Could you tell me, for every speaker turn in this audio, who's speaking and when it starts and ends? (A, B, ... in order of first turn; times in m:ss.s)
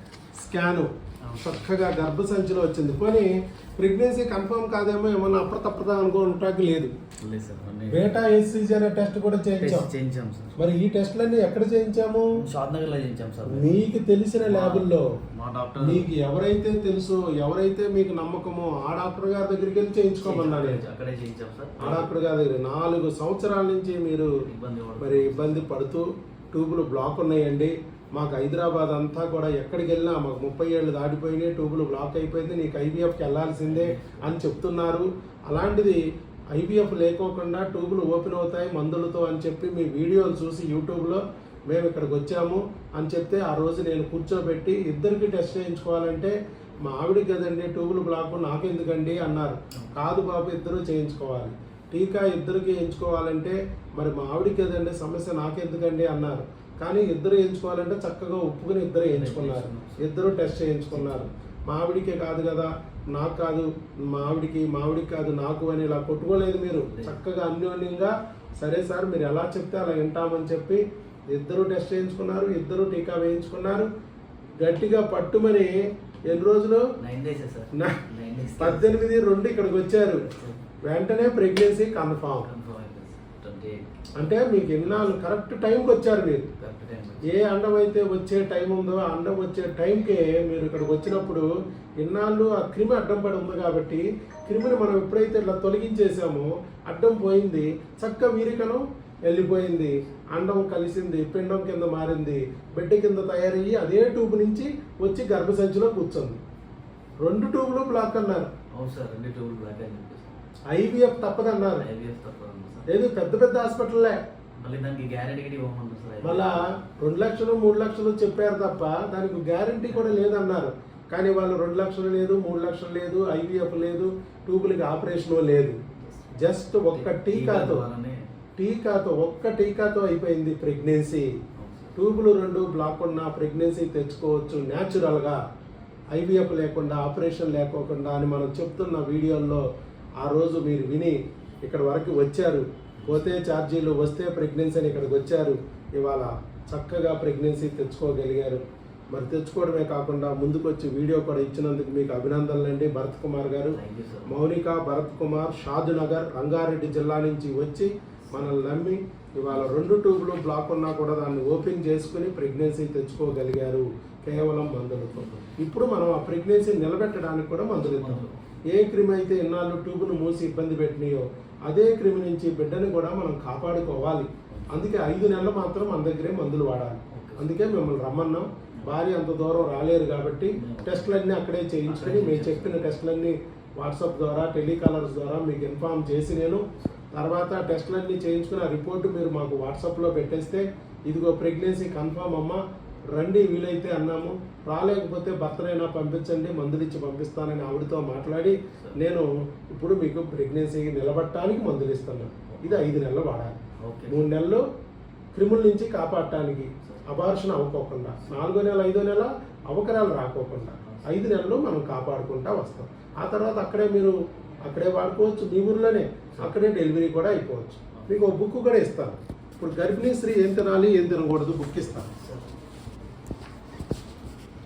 0:00.4-0:06.9 A
0:01.2-0:01.7 B
0:07.2-0:08.2 B
0:07.9-0:09.9 A
0:09.6-0:10.6 B
0:10.6-0:12.4 A
0:12.3-0:13.8 B
0:13.5-0:15.1 A
0:14.4-0:16.1 B
0:15.8-0:20.8 A
0:20.2-0:22.1 B
0:21.8-0:24.3 A
0:24.4-0:25.7 B
0:25.0-0:36.0 A
0:33.6-0:34.4 B
0:36.5-1:13.9 A
0:49.7-0:50.0 B
0:59.1-1:01.4 B
1:06.7-1:07.2 B
1:14.6-1:16.9 A
1:17.0-1:19.1 B
1:17.7-1:18.0 A
1:18.6-1:20.3 A
1:20.2-1:20.6 B
1:20.8-1:22.5 A
1:22.4-1:24.1 B
1:24.2-1:26.5 A
1:24.6-1:25.3 B
1:26.5-1:27.4 B
1:27.3-1:46.4 A
1:47.2-1:48.5 A
1:48.7-1:50.4 B
1:50.7-1:51.9 A
1:51.7-1:52.9 B
1:52.9-1:54.2 A
1:54.6-1:56.7 B
1:56.2-2:05.8 A
1:59.9-2:00.2 B
2:06.3-2:07.8 A
2:06.9-2:08.2 B
2:08.6-2:11.3 A
2:11.6-2:12.0 B
2:12.0-2:15.4 A
2:16.1-2:19.6 A
2:20.2-3:12.6 A
2:23.0-2:23.3 B
2:33.7-2:34.4 B
2:39.5-2:39.9 B
2:45.1-2:45.6 B
2:47.8-2:48.4 B
2:54.5-2:54.9 B
2:57.1-2:57.6 B
3:00.5-3:01.2 B
3:01.8-3:03.0 B
3:13.1-3:24.6 A
3:22.5-3:22.9 B
3:23.8-3:24.2 B
3:25.3-3:34.1 A
3:26.8-3:27.1 B
3:30.8-3:31.2 B
3:34.6-3:42.1 A
3:37.9-3:38.3 B
3:42.1-3:42.5 B